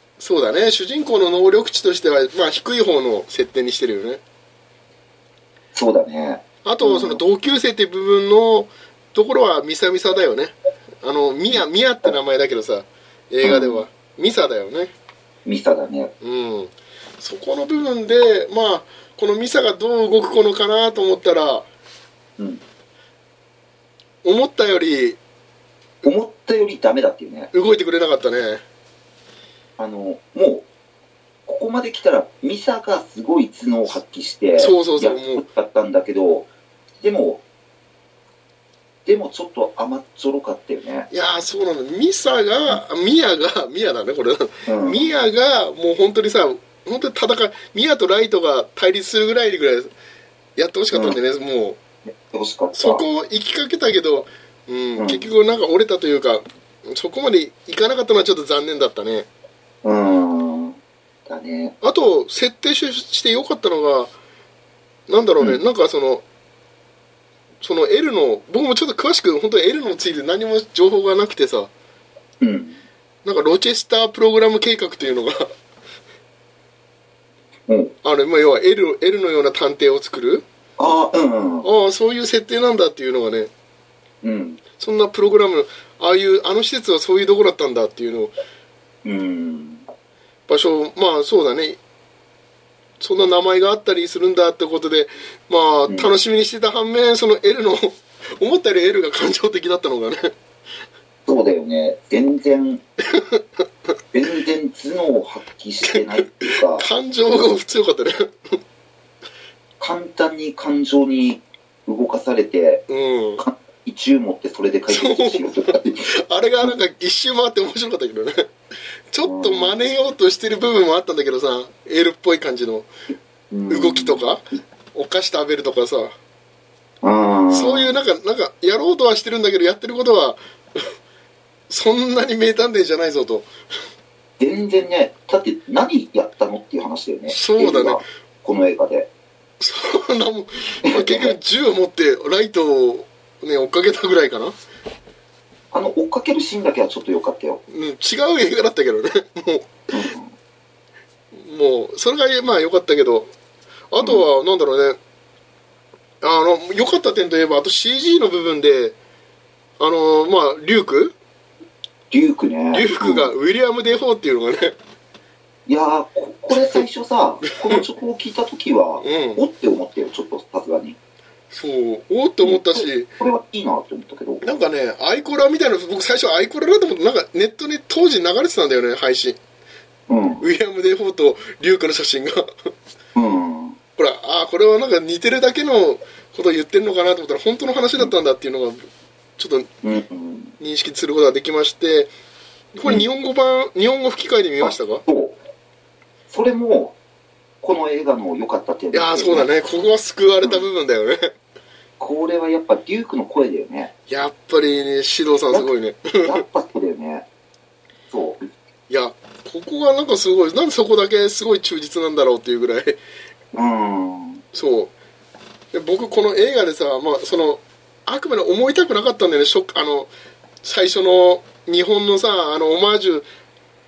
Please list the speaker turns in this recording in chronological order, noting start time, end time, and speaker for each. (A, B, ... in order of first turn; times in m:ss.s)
0:00.2-0:04.2 A
0:05.7-0:07.2 B
0:06.6-0:14.9 A
0:13.4-0:13.8 B
0:15.4-0:16.1 B
0:16.2-0:21.7 A
0:24.2-0:25.2 A
0:26.0-0:27.5 B
0:27.5-0:28.6 A
0:29.8-0:30.7 B
0:31.5-0:36.5 B
0:34.6-0:35.4 A
0:37.0-0:37.4 B
0:39.0-0:41.1 B
0:41.1-0:49.9 A
0:44.6-0:45.1 B
0:50.6-0:51.8 A
0:50.9-0:51.2 B
0:52.3-0:53.0 B
0:52.8-0:59.3 A
0:55.0-0:55.3 B
0:59.8-1:01.8 B
1:01.8-1:04.1 A
1:05.1-1:06.2 A
1:07.6-1:11.7 A
1:12.4-1:12.8 B
1:13.2-1:15.5 A
1:17.7-1:17.9 B
1:18.0-1:20.4 A
1:20.8-1:21.7 B
1:21.6-1:23.5 A
1:24.2-1:24.6 B
1:24.8-1:28.3 A
1:29.0-1:29.8 B
1:30.5-1:31.8 A
1:33.0-1:40.3 A
1:41.2-1:42.8 B
1:43.1-1:43.4 A
1:44.1-1:47.5 B
1:45.9-1:48.6 A
1:49.8-1:52.8 B
1:52.9-1:53.4 A
1:53.4-1:56.1 B
1:54.9-1:58.5 A
1:59.1-2:02.9 A
1:59.2-1:59.7 B
2:03.5-2:04.2 B
2:03.7-2:04.4 A
2:04.9-2:06.1 A
2:07.0-2:07.9 B
2:07.5-2:10.9 A
2:11.7-2:13.5 A
2:14.4-2:19.1 B
2:17.3-2:18.0 A
2:19.6-2:24.5 A
2:20.8-2:21.4 B
2:25.7-2:27.6 B
2:27.7-2:29.7 A
2:29.9-2:30.3 B
2:31.3-2:33.3 A
2:33.9-2:35.0 A
2:34.0-2:34.2 B
2:36.2-2:39.0 A
2:39.8-2:41.1 A
2:42.1-2:43.3 B
2:42.7-2:44.8 A
2:45.7-2:51.0 B
2:49.0-2:49.4 A
2:51.5-2:53.1 A
2:52.4-2:54.5 B
2:54.4-2:59.4 A
3:00.1-3:00.4 B
3:00.4-3:02.7 A
3:03.1-3:03.8 B
3:04.0-3:08.8 A
3:09.4-3:09.7 A
3:09.8-3:10.5 B
3:10.6-3:12.1 A
3:12.7-3:15.0 A
3:14.6-3:15.3 B
3:16.3-3:17.0 B
3:17.6-3:19.5 B
3:18.9-3:21.3 A
3:22.0-3:23.9 B
3:24.1-3:26.4 A
3:26.2-3:27.2 B
3:28.1-3:28.5 B
3:28.9-3:33.0 A
3:33.5-3:34.4 B
3:34.5-3:34.9 A
3:35.7-3:40.1 A
3:40.6-3:43.2 A